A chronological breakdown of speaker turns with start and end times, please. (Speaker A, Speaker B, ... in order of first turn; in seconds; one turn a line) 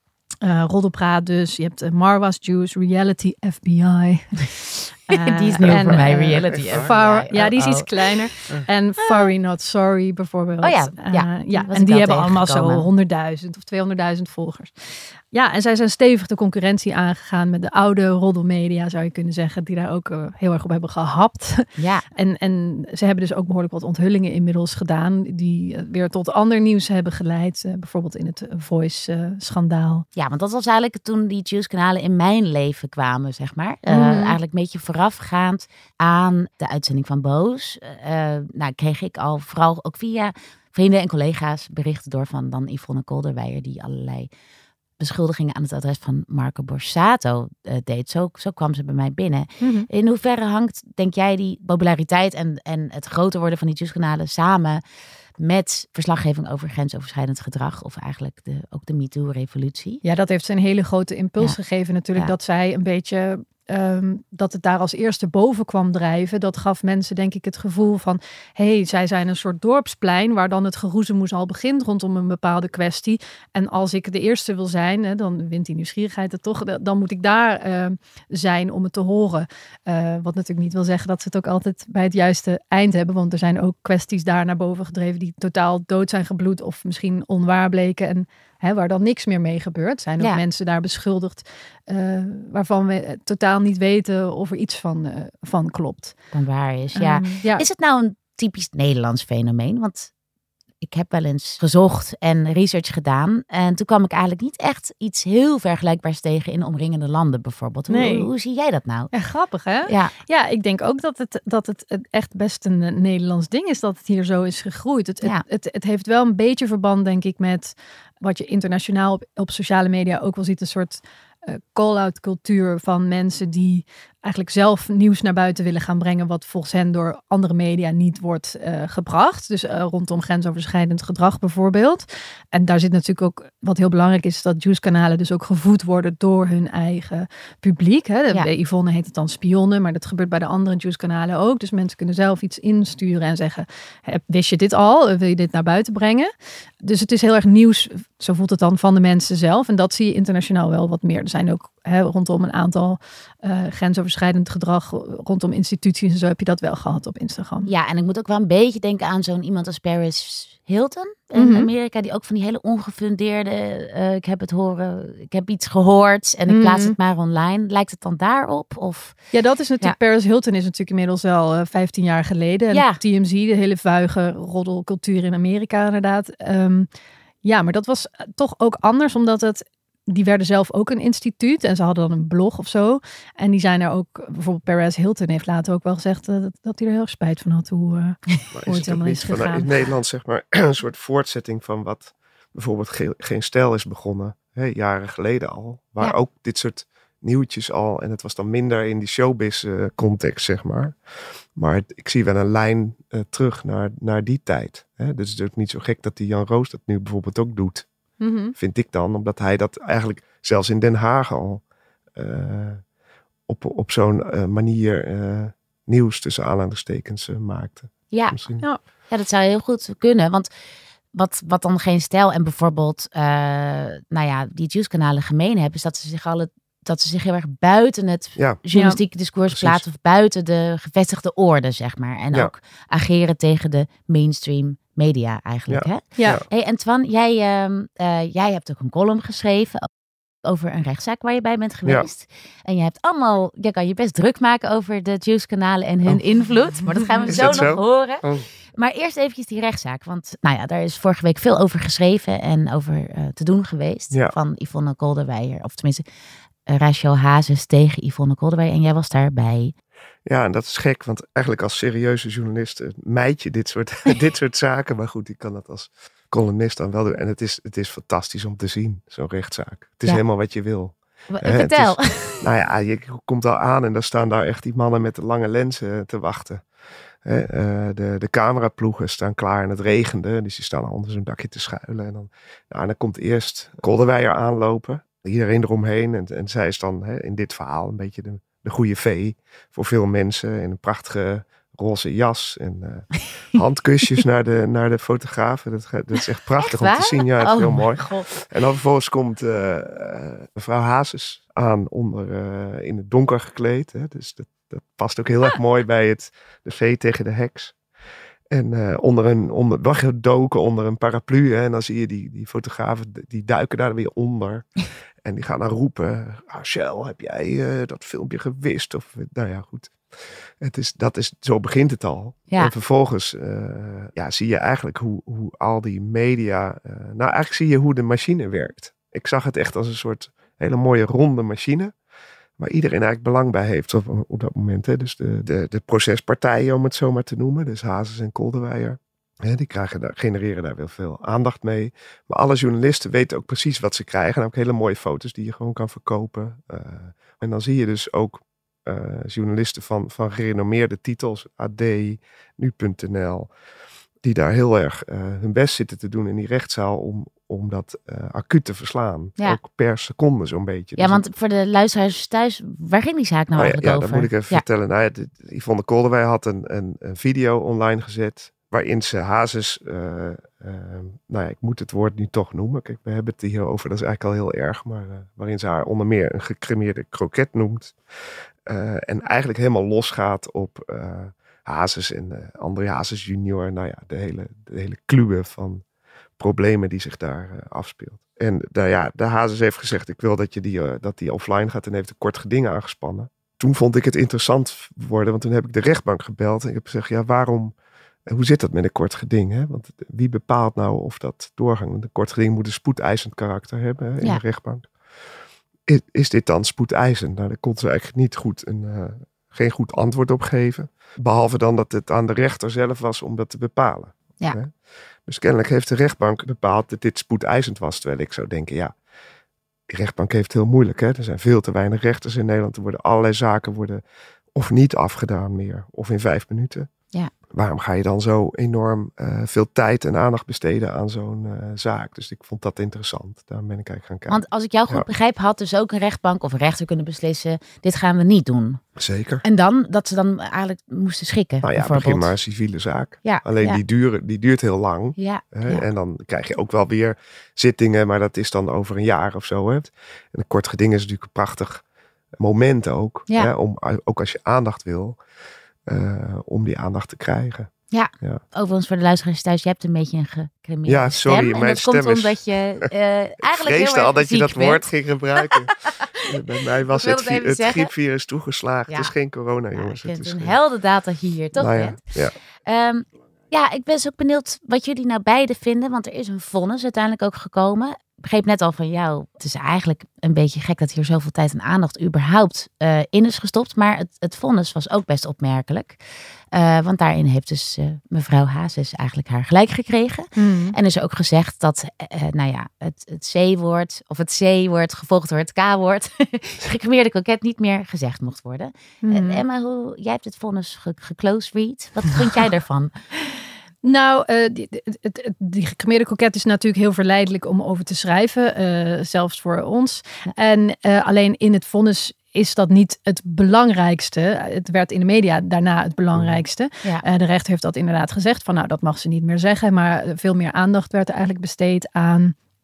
Speaker A: 0.4-14.8
Speaker B: 5.1-8.4
Speaker C: 5.7-6.0
Speaker C: 6.5-6.9
Speaker B: 10.6-12.9
Speaker A: 15.3-30.1
Speaker B: 21.8-22.1
Speaker B: 30.1-44.3
Speaker A: 33.9-34.4
Speaker B: 45.0-54.8
Speaker A: 49.6-49.9
Speaker B: 55.4-60.0
Speaker A: 60.0-96.2
Speaker B: 96.3-100.1
Speaker A: 97.0-97.7
Speaker B: 100.8-109.1
Speaker A: 107.9-108.3
Speaker A: 109.1-157.7
Speaker B: 109.9-110.1
Speaker B: 157.7-169.2
Speaker A: 161.3-161.7
Speaker A: 166.5-167.0
Speaker A: 169.3-176.9
Speaker B: 172.7-173.0
Speaker A: 177.4-189.7
Speaker C: 188.5-201.0
Speaker C: 201.6-207.9
Speaker A: 208.2-208.5
Speaker C: 208.6-211.6
Speaker C: 212.2-212.8
Speaker C: 213.5-218.7
Speaker B: 218.1-218.4
Speaker B: 219.1-220.5
Speaker B: 221.1-239.9
Speaker C: 228.4-228.6
Speaker A: 228.7-229.0
Speaker C: 229.5-229.8
Speaker C: 235.7-236.4
Speaker B: 240.4-248.2
Speaker C: 247.3-248.5
Speaker B: 248.8-256.0
Speaker B: 256.7-259.7
Speaker C: 260.3-276.6
Speaker B: 271.3-272.4
Speaker C: 277.2-307.8
Speaker B: 296.6-298.3
Speaker C: 308.5-314.7
Speaker C: 315.2-320.0
Speaker C: 320.6-331.9
Speaker C: 332.6-353.5
Speaker C: 354.2-361.2
Speaker B: 361.0-364.6
Speaker C: 363.6-378.0
Speaker C: 378.7-385.8
Speaker C: 386.4-397.7
Speaker C: 398.3-404.9
Speaker C: 405.9-414.7
Speaker C: 415.3-418.9
Speaker C: 419.9-424.0
Speaker C: 424.5-426.9
Speaker C: 427.5-435.1
Speaker B: 434.3-438.8
Speaker C: 439.0-439.4
Speaker B: 439.4-442.4
Speaker C: 441.6-451.8
Speaker B: 443.2-443.8
Speaker B: 445.2-445.9
Speaker C: 452.4-455.2
Speaker C: 455.9-457.7
Speaker B: 457.9-464.9
Speaker C: 460.9-462.9
Speaker C: 463.4-470.6
Speaker B: 466.9-467.9
Speaker B: 468.9-469.1
Speaker B: 469.8-472.0
Speaker C: 471.6-472.4
Speaker B: 472.7-486.0
Speaker B: 486.5-502.9
Speaker A: 490.4-490.8
Speaker A: 499.0-499.4
Speaker A: 503.8-522.4
Speaker C: 516.1-516.4